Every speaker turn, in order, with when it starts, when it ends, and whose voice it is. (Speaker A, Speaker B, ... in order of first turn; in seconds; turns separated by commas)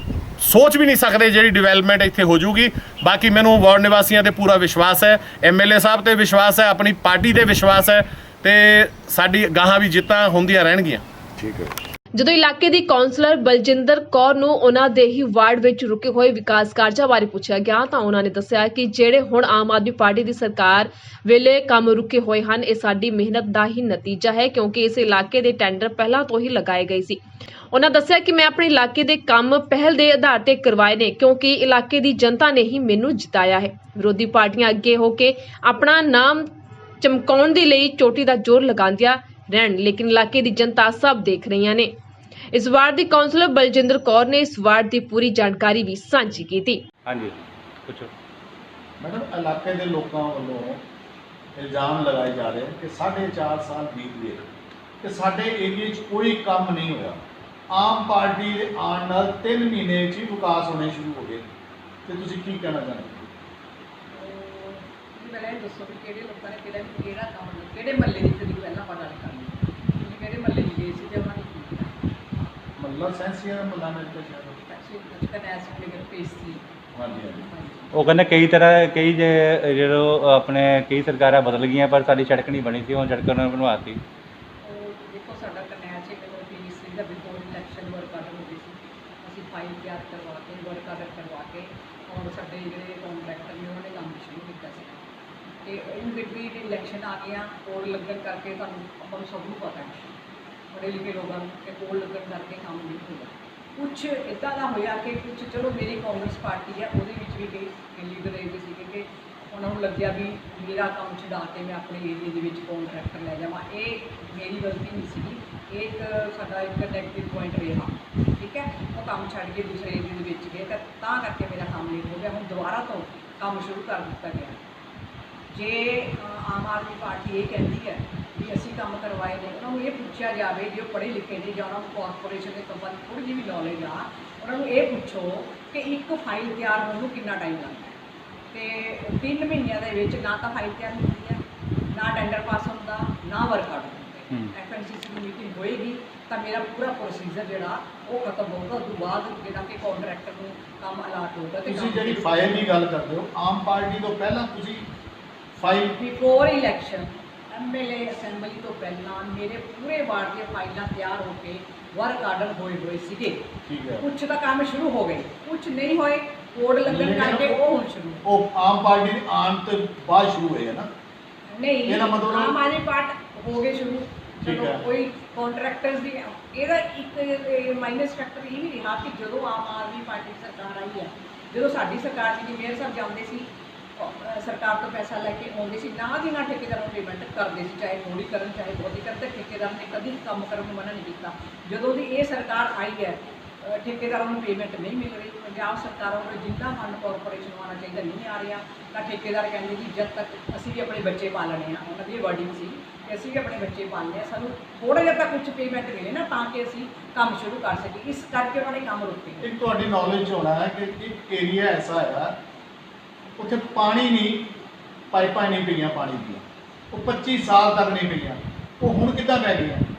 Speaker A: 0.4-11.0, Speaker B: 11.4-11.7, Speaker C: 12.1-27.2, Speaker C: 27.7-36.5, Speaker C: 37.0-41.9, Speaker C: 42.5-46.8, Speaker D: 47.0-48.1, Speaker B: 49.0-50.8, Speaker B: 51.5-54.5, Speaker B: 55.0-61.5, Speaker B: 62.0-63.3, Speaker E: 64.1-72.0, Speaker B: 72.8-74.6, Speaker E: 74.7-76.6, Speaker B: 77.0-77.5, Speaker E: 77.4-77.9, Speaker D: 77.9-84.0, Speaker E: 84.6-95.0, Speaker E: 95.6-100.0, Speaker E: 100.7-124.6, Speaker E: 125.5-138.0, Speaker E: 138.5-141.4, Speaker E: 141.9-152.7, Speaker B: 151.7-154.8, Speaker B: 155.5-156.0, Speaker E: 156.0-163.4, Speaker B: 163.7-164.0, Speaker E: 164.0-168.2, Speaker B: 166.8-167.6, Speaker B: 168.2-170.9, Speaker E: 171.5-209.5, Speaker B: 171.8-172.6, Speaker B: 174.4-174.8, Speaker B: 209.4-212.3, Speaker B: 213.3-214.5, Speaker B: 215.1-219.8